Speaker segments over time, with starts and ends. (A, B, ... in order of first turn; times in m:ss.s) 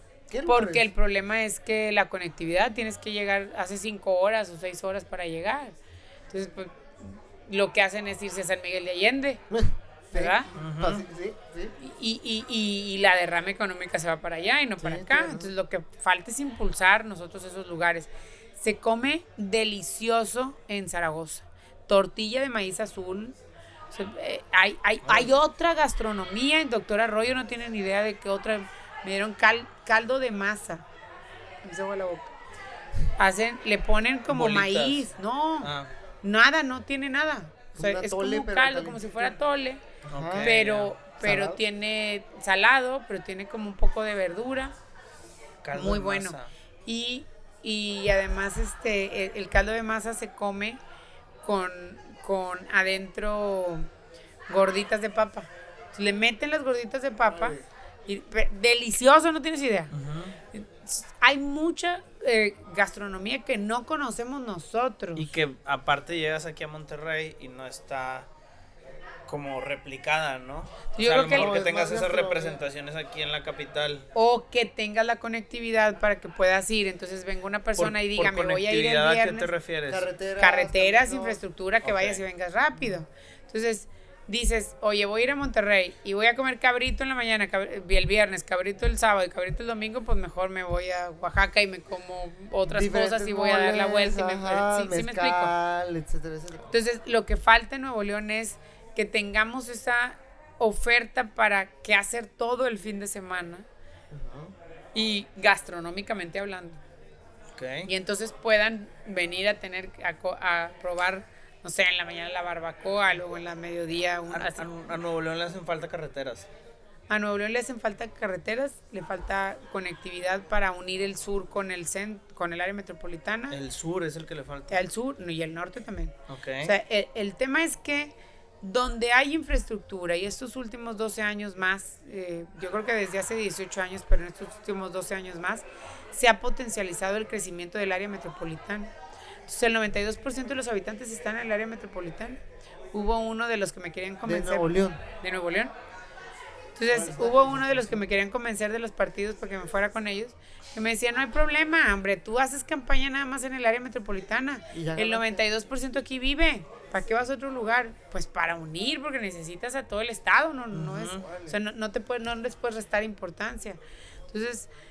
0:00.3-0:00.9 A
0:00.4-0:05.7 B
0:06.3-0:09.4 B
0:09.5-0:11.8 A
0:10.1-0:10.5 B
0:10.5-0:11.0 C
0:11.8-0:23.3 B
0:14.8-0:15.5 A
0:23.9-0:30.8 B
0:25.0-0:25.4 C
0:31.6-0:32.3 B
0:33.2-0:35.7 B
0:34.3-0:35.1 C
0:35.6-0:35.9 C
0:36.2-0:39.8 B
0:37.8-0:39.4 A
0:40.0-0:40.5 A
0:40.1-0:40.9 C
0:40.4-0:44.7 B
0:41.2-0:41.6 A
0:45.6-0:46.5 C
0:45.7-0:50.8 B
0:51.4-0:53.9 B
0:54.5-0:59.9 B
0:57.2-0:57.7 A
0:59.9-1:00.4 C
1:00.5-1:05.3 B
1:05.2-1:08.3 C
1:09.3-1:14.1 C
1:10.9-1:11.6 B
1:11.2-1:12.6 A
1:14.1-1:19.5 B
1:17.8-1:20.1 C
1:19.9-1:21.4 A
1:20.4-1:35.5 B
1:21.8-1:22.2 C
1:32.7-1:36.7 A
1:36.7-1:43.6 B
1:44.1-1:44.5 A
1:44.9-1:46.8 B
1:47.5-1:47.9 C
1:47.8-1:54.7 B
1:54.3-1:56.5 C
1:57.1-2:03.6 B
2:03.5-2:04.8 C
2:04.7-2:18.9 B
2:06.3-2:06.7 C
2:19.5-2:22.4 B
2:22.9-2:25.7 B
2:24.2-2:25.0 A
2:26.8-2:43.8 B
2:26.9-2:28.0 A
2:34.7-2:35.4 A
2:40.7-2:41.2 C
2:41.0-2:41.6 A
2:44.3-2:44.7 B